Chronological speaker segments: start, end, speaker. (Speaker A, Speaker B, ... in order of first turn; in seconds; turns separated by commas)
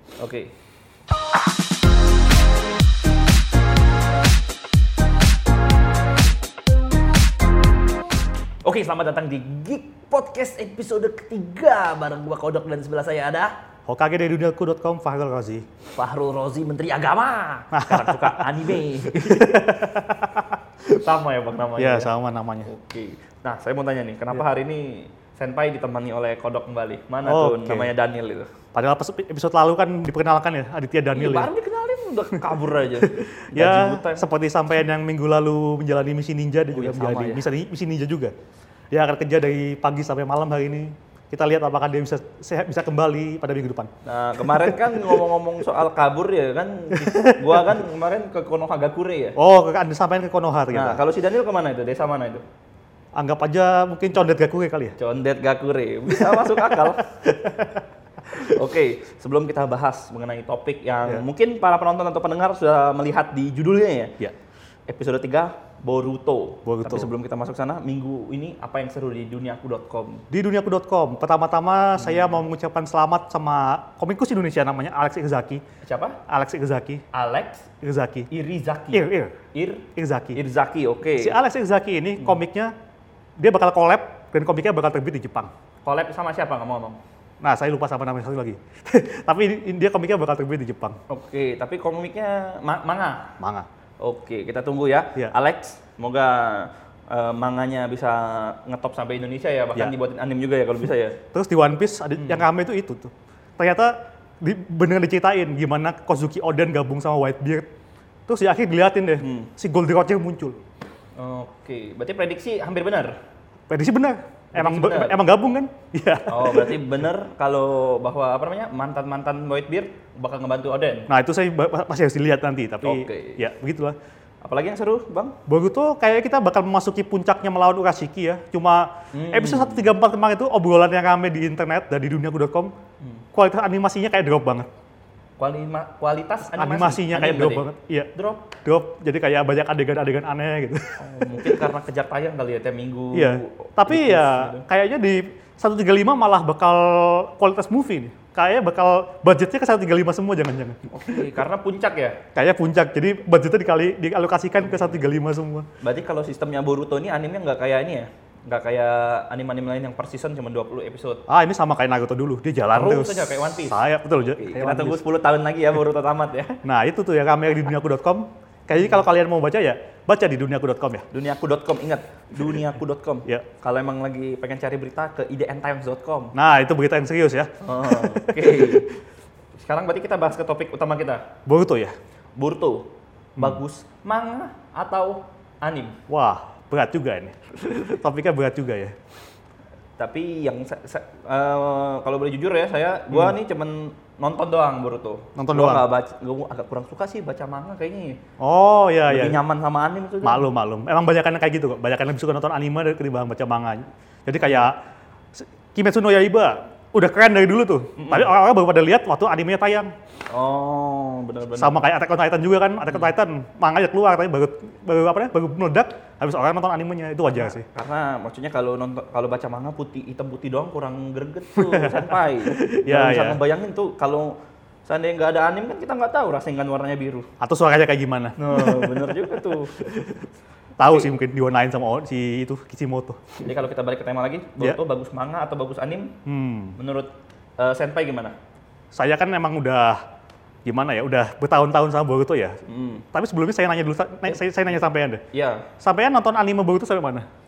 Speaker A: 0.2-0.5, Speaker A: 8.6-13.6, Speaker B: 13.9-15.7, Speaker A: 15.9-19.7, Speaker B: 17.7-18.4, Speaker B: 19.1-20.6, Speaker A: 20.8-22.1, Speaker B: 21.8-22.7, Speaker A: 22.6-28.5, Speaker B: 27.2-27.9, Speaker B: 28.7-31.5, Speaker A: 31.1-34.3, Speaker B: 32.3-38.3, Speaker A: 36.7-37.5, Speaker B: 38.9-43.9, Speaker A: 44.0-49.4, Speaker B: 44.4-45.2, Speaker B: 46.9-47.8, Speaker B: 49.4-51.0, Speaker A: 50.7-52.4, Speaker B: 53.2-55.0, Speaker A: 55.0-57.3, Speaker B: 56.1-57.8, Speaker A: 58.3-64.2, Speaker A: 64.9-70.2, Speaker B: 66.7-67.1, Speaker B: 70.3-75.6, Speaker A: 72.0-72.4, Speaker A: 75.8-76.2, Speaker B: 76.3-77.0, Speaker A: 77.1-77.7, Speaker B: 77.8-78.3, Speaker A: 78.3-81.4, Speaker B: 78.9-79.3, Speaker B: 80.0-80.4, Speaker B: 81.2-82.7, Speaker B: 83.4-85.5, Speaker A: 85.8-87.0, Speaker B: 87.4-91.0, Speaker A: 91.1-93.3, Speaker B: 93.4-93.7, Speaker A: 94.0-101.2, Speaker B: 101.3-107.7, Speaker A: 102.2-102.5, Speaker B: 108.3-110.6, Speaker A: 109.2-109.5, Speaker A: 111.2-113.2, Speaker B: 113.7-116.9, Speaker A: 114.5-115.2, Speaker A: 116.3-121.1, Speaker B: 121.1-124.0, Speaker A: 122.8-123.4, Speaker A: 124.4-125.4, Speaker B: 125.5-132.7, Speaker A: 129.1-129.9, Speaker B: 133.3-134.7, Speaker A: 135.4-138.5, Speaker B: 136.5-138.1, Speaker B: 138.6-141.7, Speaker A: 141.0-144.7, Speaker B: 143.1-150.8, Speaker A: 150.9-152.2, Speaker B: 152.3-155.7, Speaker A: 154.6-155.0, Speaker A: 155.8-161.2, Speaker B: 161.3-165.0, Speaker A: 162.7-166.6, Speaker B: 166.6-171.1, Speaker A: 171.1-176.3, Speaker B: 176.3-178.8, Speaker A: 177.6-178.9, Speaker A: 179.6-181.2, Speaker B: 181.5-181.9, Speaker A: 182.4-186.0, Speaker B: 183.4-183.6, Speaker B: 186.1-188.9, Speaker A: 190.0-198.2, Speaker B: 193.1-193.4, Speaker B: 195.4-195.8, Speaker B: 198.4-199.4, Speaker A: 199.1-200.5, Speaker B: 200.2-204.8, Speaker A: 204.4-204.7, Speaker B: 205.3-209.9, Speaker A: 208.0-208.3, Speaker A: 210.3-211.8, Speaker B: 211.6-217.7, Speaker A: 217.3-227.3, Speaker B: 221.6-223.4, Speaker B: 227.4-230.1, Speaker A: 228.4-229.9, Speaker B: 230.8-233.4, Speaker A: 230.8-231.1, Speaker A: 233.4-236.2, Speaker B: 236.3-236.8, Speaker A: 236.8-238.3, Speaker B: 238.9-240.0, Speaker B: 240.7-242.6, Speaker A: 242.7-243.1, Speaker B: 243.1-245.2, Speaker A: 245.3-245.7, Speaker B: 245.8-247.3